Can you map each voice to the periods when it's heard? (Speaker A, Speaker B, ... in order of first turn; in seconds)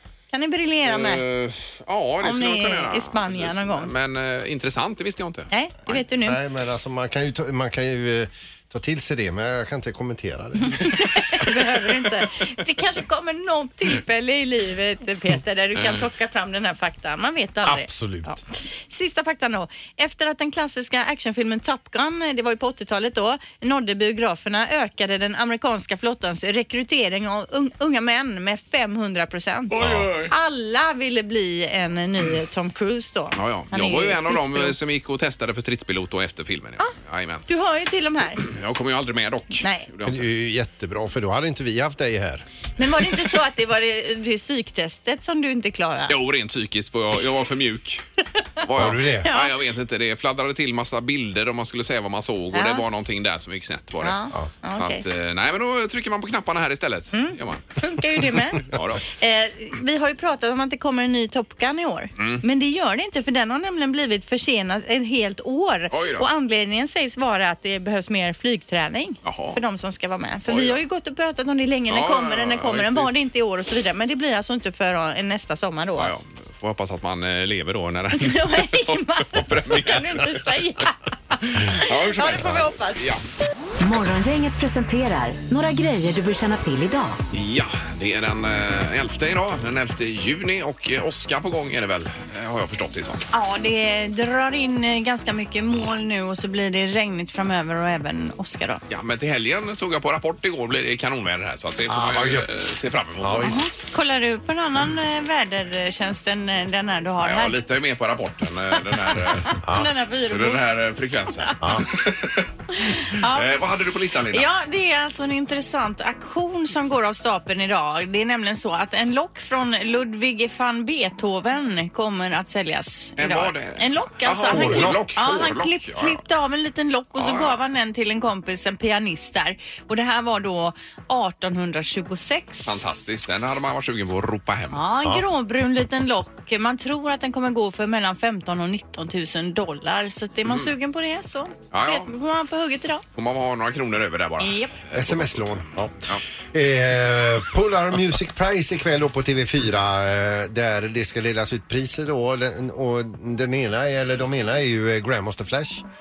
Speaker A: 0.3-1.2, 2.2-3.9, 5.5-6.4, 10.8-18.4, 18.9-34.8, 37.5-38.4, 39.6-39.9, 42.8-46.1, 49.2-49.5, 52.5-52.8, 54.0-55.0, 57.1-76.1, 78.1-83.1, 93.3-98.8, 103.4-107.5, 109.1-110.7, 112.8-113.5, 114.3-132.8, 134.7-143.0, 144.4-144.7
Speaker B: 0.8-6.0, 29.7-30.3, 33.3-37.5, 38.4-40.2, 46.1-48.0, 48.6-54.2, 54.7-57.8, 58.6-59.0, 62.2-62.4, 65.9-66.2, 69.2-69.6, 70.5-70.8, 71.9-73.2, 76.0-80.5, 81.4-83.2, 87.3-93.2, 98.9-103.6, 107.2-109.6, 110.2-114.5, 123.2-126.2, 127.2-127.6, 132.7-134.8, 140.4-140.7, 141.7-142.1, 143.1-146.2
Speaker C: 6.2-11.6, 17.6-18.3, 29.8-30.1, 40.0-42.5, 48.7-49.3, 101.9-102.5, 103.2-103.6, 109.6-109.9, 124.5-125.2, 144.9-155.8
Speaker D: 83.8-87.2